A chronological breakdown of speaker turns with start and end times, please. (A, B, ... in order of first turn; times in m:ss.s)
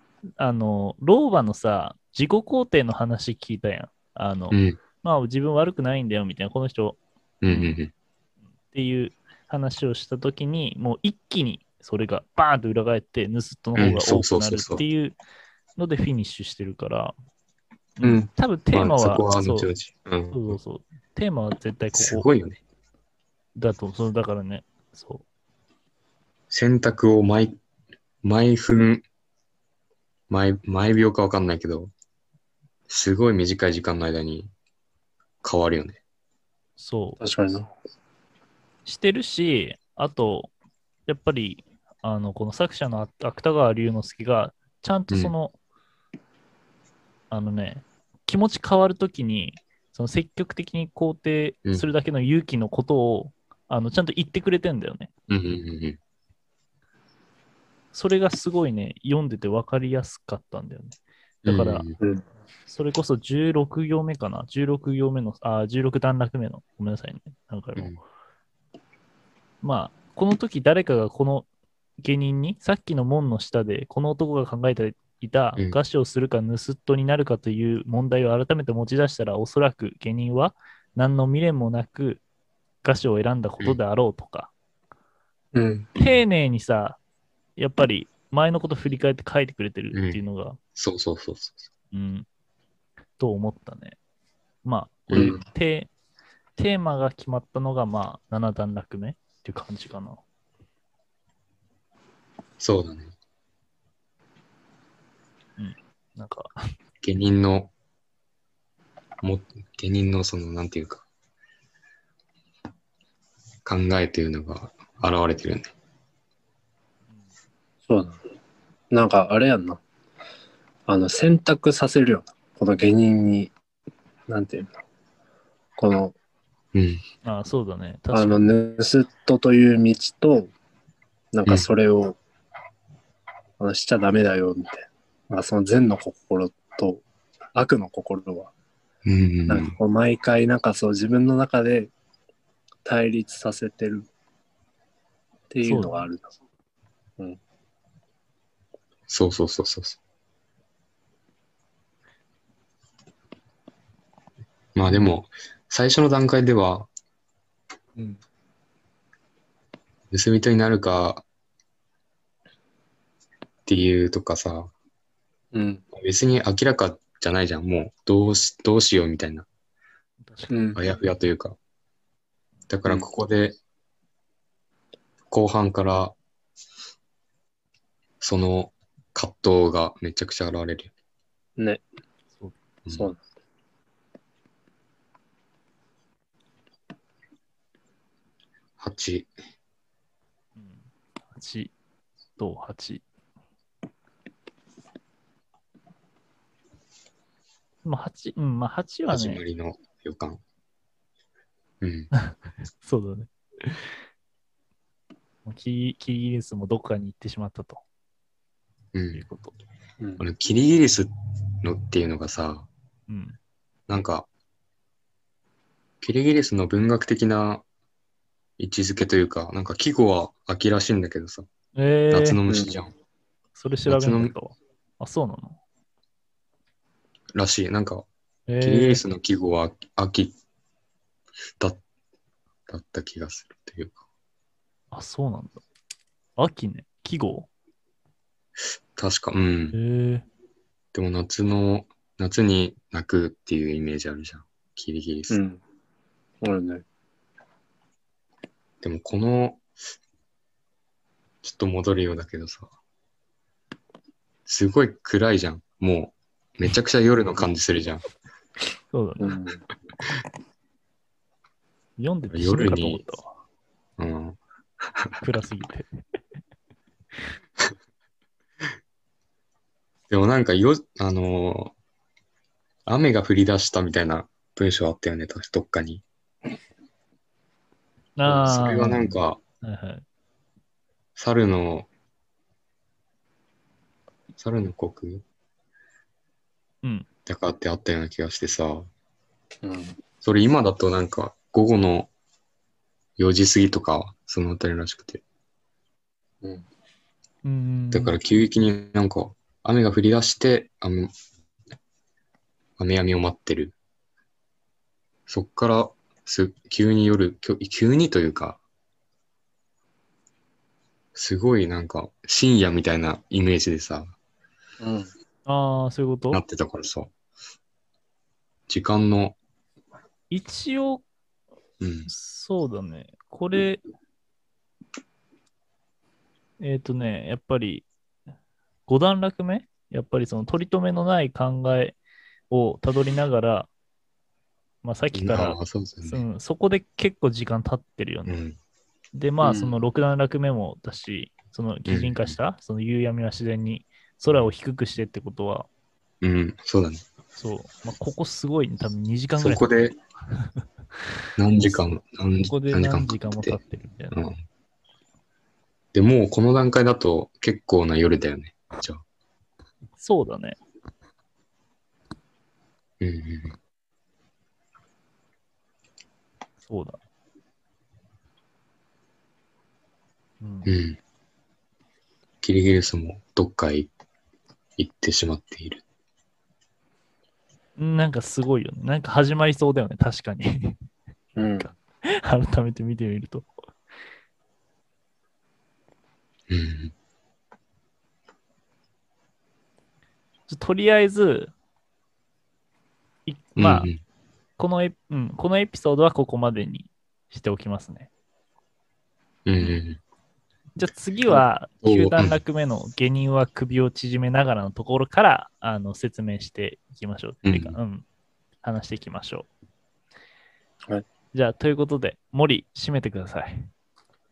0:00.4-0:07.8 A
0:04.5-0:04.8 B
0:07.4-0:07.9 B
0:08.7-0:15.2 A
0:13.8-0:14.8 B
0:15.8-0:17.1 A
0:18.0-0:19.7 A
0:18.0-0:20.6 B
0:20.3-0:22.3 A
0:21.9-0:22.6 B
0:23.6-0:25.2 A
0:26.5-0:27.6 B
0:28.2-0:29.0 B
0:30.3-0:31.9 B
0:32.9-0:34.5 B
0:35.4-0:36.0 B
0:36.8-0:37.2 A
0:37.2-0:37.7 C
0:38.9-0:40.5 A
0:41.1-0:45.5 A
0:47.3-0:55.1 A
0:55.3-0:56.0 B
0:57.9-1:01.9 A
1:01.4-1:02.0 B
1:02.7-1:08.0 A
1:09.6-1:11.5 A
1:12.0-1:22.2 A
1:22.8-1:24.5 A
1:25.5-1:26.0 C
1:26.0-1:27.0 A
1:27.6-1:30.6 A
1:29.9-1:30.2 B
1:30.8-1:31.7 B
1:31.9-1:32.3 A
1:33.2-1:34.0 A
1:34.6-1:35.9 A
1:35.1-1:35.4 B
1:36.6-1:40.2 A
1:42.6-1:43.1 B
1:45.6-1:46.5 A
1:47.0-1:47.7 B
1:49.2-1:51.0 B
1:53.6-1:55.7 B
1:57.9-1:58.2 C
1:58.9-1:59.8 C
2:00.9-2:03.5 C
2:04.3-2:04.7 C
2:05.8-2:06.1 C
2:06.7-2:07.0 B
2:07.2-2:08.5 A
2:08.1-2:10.5 C
2:11.3-2:12.2 C
2:13.6-2:17.0 C
2:17.6-2:18.5 C
2:19.0-2:19.8 B
2:19.5-2:21.9 C
2:22.8-2:24.1 C
2:25.5-2:26.3 C
2:25.6-2:26.1 A
2:29.1-2:30.0 B
2:34.8-2:36.9 B
2:40.1-2:41.2 B
2:43.6-2:44.7 B
2:45.5-2:45.8 C
2:45.9-2:49.5 B
2:50.2-2:50.6 A
2:50.5-2:50.8 C
2:50.8-2:51.6 B
2:52.7-2:53.6 B
2:55.3-2:56.2 B
2:58.2-3:00.9 B
3:01.6-3:01.8 C
3:02.9-3:03.2 C
3:08.8-3:09.3 B
3:11.4-3:11.7 A
3:12.4-3:13.0 A
3:17.8-3:19.4 A
3:19.1-3:20.4 B
3:21.8-3:22.1 B
3:22.1-3:24.0 A
3:25.4-3:27.8 A
3:28.9-3:29.2 B
3:29.1-3:29.5 A
3:30.0-3:30.3 C
3:30.2-3:31.1 B
3:31.6-3:32.7 B
3:33.1-3:33.4 A
3:33.9-3:34.3 B
3:36.0-3:37.6 B
3:38.6-3:41.5 B
3:41.8-3:42.4 A
3:42.1-3:42.9 B
3:42.5-3:42.7 C
3:43.6-3:45.6 A
3:43.9-3:44.3 B
3:47.4-3:48.1 B
3:48.5-3:49.0 A
3:48.6-3:50.4 B
3:52.7-3:54.0 B
3:54.9-3:55.6 A
3:56.4-3:57.5 A
3:59.0-3:59.8 B
3:59.7-4:00.2 A
4:00.9-4:05.4 B
4:05.3-4:05.6 C
4:06.4-4:06.8 C
4:08.8-4:09.6 B
4:11.4-4:12.7 B
4:14.5-4:18.0 B
4:18.9-4:19.4 A
4:19.2-4:19.6 C
4:22.0-4:23.3 A
4:22.3-4:23.0 B
4:24.0-4:24.4 B
4:25.2-4:25.9 A
4:30.1-4:31.7 B
4:32.9-4:36.0 B
4:38.2-4:40.0 A
4:38.3-4:39.4 B
4:41.2-4:41.9 B
4:44.4-4:45.2 B
4:47.3-4:48.9 B
4:49.6-4:50.0 C
4:50.2-4:52.1 B
4:53.2-4:55.2 B
4:57.4-4:58.2 A
4:57.9-5:01.1 B
5:02.8-5:03.8 B
5:05.3-5:08.6 B
5:11.1-5:14.1 B
5:14.8-5:15.1 C
5:15.5-5:16.4 A
5:16.3-5:17.1 B
5:18.7-5:19.4 B
5:20.3-5:21.0 A
5:21.8-5:22.1 B
5:22.1-5:23.8 A
5:26.6-5:27.9 A
5:28.9-5:32.0 A
5:32.5-5:33.7 A
5:34.8-5:38.4 A
5:35.1-5:36.2 B
5:38.3-5:38.6 B
5:39.1-5:45.7 A
5:39.4-5:39.8 C
5:41.9-5:42.4 B
5:46.2-5:47.0 B
5:47.4-5:49.7 A
5:49.4-5:50.0 B
5:51.4-5:53.6 B
5:52.4-5:54.3 A
5:54.1-5:54.4 B
5:55.9-5:59.0 B
6:00.0-6:00.6 A
6:03.0-6:03.6 B
6:06.7-6:07.0 A
6:10.4-6:10.7 A
6:10.6-6:11.0 B
6:12.4-6:13.9 B
6:14.8-6:15.8 B
6:17.8-6:20.8 A
6:21.4-6:21.7 C
6:21.4-6:23.5 A
6:26.5-6:26.9 B
6:30.5-6:31.5 A
6:33.3-6:33.9 A
6:33.6-6:34.0 B
6:34.6-6:38.1 A
6:39.5-6:40.0 B
6:40.8-6:48.0 A
6:41.8-6:42.4 B
6:47.4-6:47.8 B
6:48.6-6:49.5 A
6:51.3-6:53.7 A